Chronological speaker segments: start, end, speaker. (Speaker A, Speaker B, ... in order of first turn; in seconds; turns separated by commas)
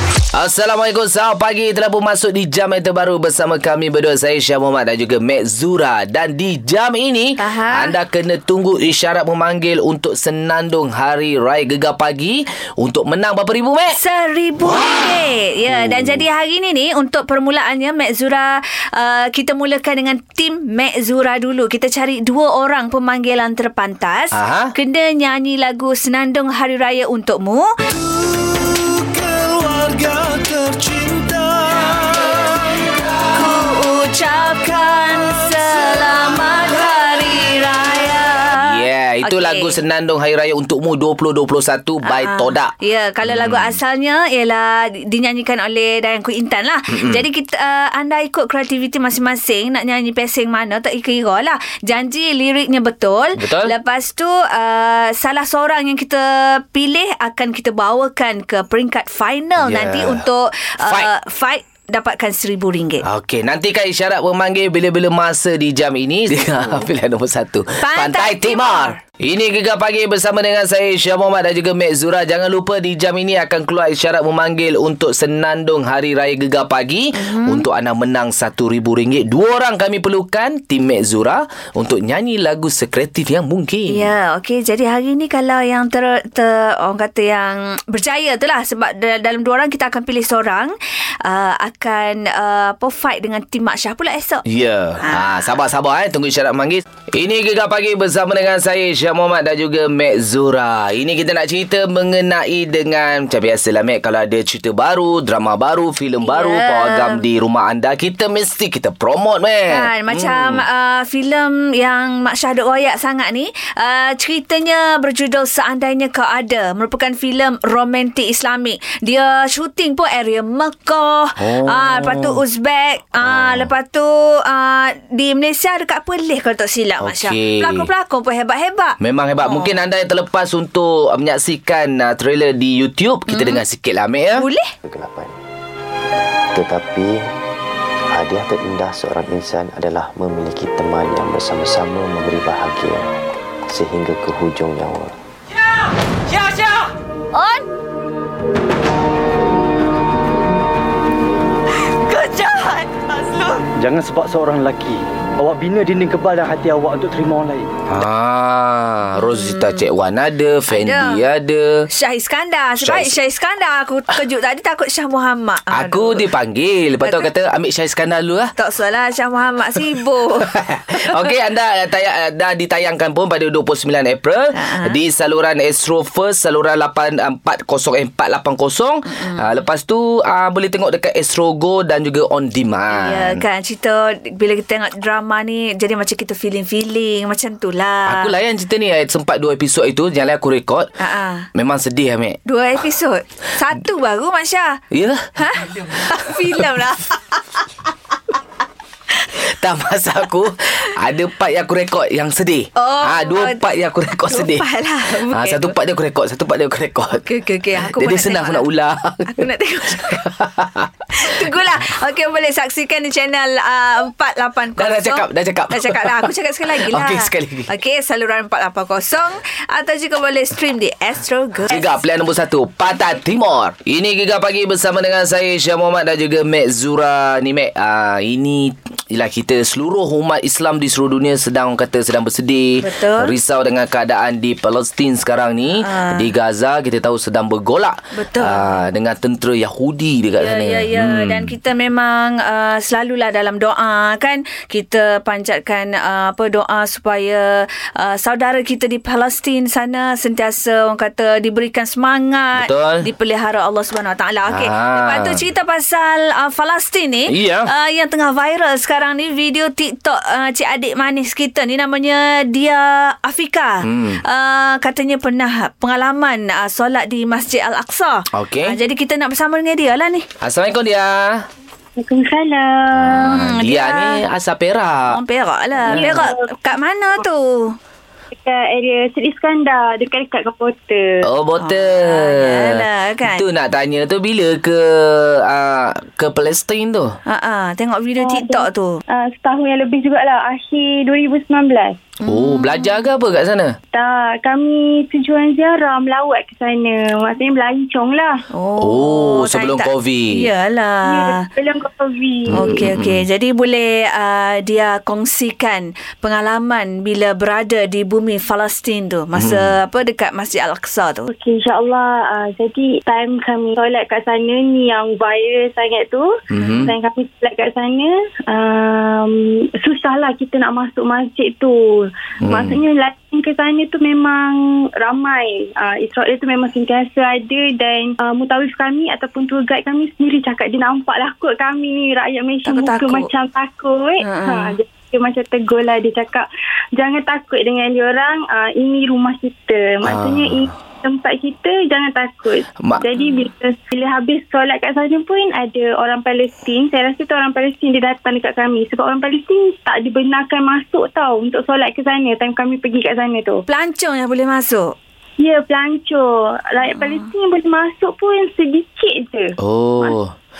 Speaker A: 0.3-14.0, Speaker B: 7.4-7.9, Speaker B: 13.9-27.7, Speaker A: 14.7-15.0, Speaker A: 15.7-16.2, Speaker A: 24.3-24.7, Speaker A: 28.7-32.9, Speaker B: 33.3-39.8, Speaker A: 38.5-42.7, Speaker B: 42.0-63.0, Speaker A: 43.2-43.8, Speaker A: 46.9-47.2, Speaker A: 53.4-53.7, Speaker A: 59.6-60.3, Speaker A: 60.8-61.1, Speaker A: 63.0-84.1, Speaker B: 67.8-69.0, Speaker B: 77.1-77.7, Speaker B: 83.9-94.4, Speaker A: 94.5-110.6, Speaker B: 95.0-95.5, Speaker B: 106.2-107.2, Speaker B: 109.7-129.8, Speaker A: 121.4-122.4, Speaker A: 123.2-123.7, Speaker A: 127.0-127.9, Speaker A: 129.0-134.5, Speaker B: 133.3-133.6, Speaker B: 134.4-134.7, Speaker C: 134.8-135.4, Speaker C: 136.5-137.3, Speaker C: 138.1-143.1, Speaker C: 143.7-145.2, Speaker B: 147.3-147.6, Speaker B: 152.1-153.0, Speaker D: 153.8-157.7, Speaker A: 157.9-161.9, Speaker B: 159.2-159.8, Speaker B: 160.7-161.2, Speaker B: 161.9-166.2, Speaker A: 162.8-163.1, Speaker A: 165.7-168.5, Speaker B: 167.0-167.3, Speaker B: 168.6-170.5, Speaker A: 170.5-183.4, Speaker B: 174.5-175.0, Speaker B: 179.1-179.5, Speaker B: 182.9-188.3, Speaker A: 188.1-190.9, Speaker B: 191.0-191.5, Speaker A: 191.5-192.4, Speaker B: 192.4-194.8, Speaker A: 194.9-196.7, Speaker B: 195.3-197.4, Speaker A: 199.4-207.2, Speaker B: 202.8-203.7, Speaker B: 204.3-205.8, Speaker B: 207.1-208.7, Speaker A: 207.8-211.5, Speaker B: 209.3-210.2, Speaker B: 211.1-221.8, Speaker A: 214.8-217.7, Speaker A: 221.7-241.5, Speaker B: 232.8-233.3, Speaker B: 235.7-236.3, Speaker B: 238.1-238.8, Speaker B: 240.4-270.2, Speaker A: 252.6-253.0, Speaker A: 254.5-255.4, Speaker A: 257.3-257.7, Speaker A: 263.8-264.2, Speaker A: 268.3-268.8, Speaker A: 270.4-271.4, Speaker E: 272.0-273.3, Speaker A: 272.9-275.2, Speaker B: 273.1-274.2, Speaker B: 275.1-277.8, Speaker E: 275.9-276.2, Speaker A: 275.9-276.3, Speaker E: 278.3-281.2, Speaker A: 281.2-287.2, Speaker B: 281.6-283.4, Speaker B: 287.3-289.0, Speaker E: 288.2-292.0, Speaker B: 292.2-293.0, Speaker A: 292.2-293.8, Speaker E: 293.9-298.4, Speaker B: 298.5-301.5, Speaker A: 298.8-300.5, Speaker E: 301.1-302.7, Speaker A: 302.5-303.2, Speaker B: 302.5-311.3, Speaker A: 309.3-309.7, Speaker E: 311.3-353.6, Speaker A: 316.5-316.9, Speaker B: 316.6-316.8, Speaker A: 322.4-322.8, Speaker B: 332.6-333.3, Speaker B: 334.2-334.8, Speaker A: 340.0-340.7, Speaker B: 353.6-354.9, Speaker E: 355.4-360.1, Speaker B: 356.9-357.3, Speaker A: 359.6-360.3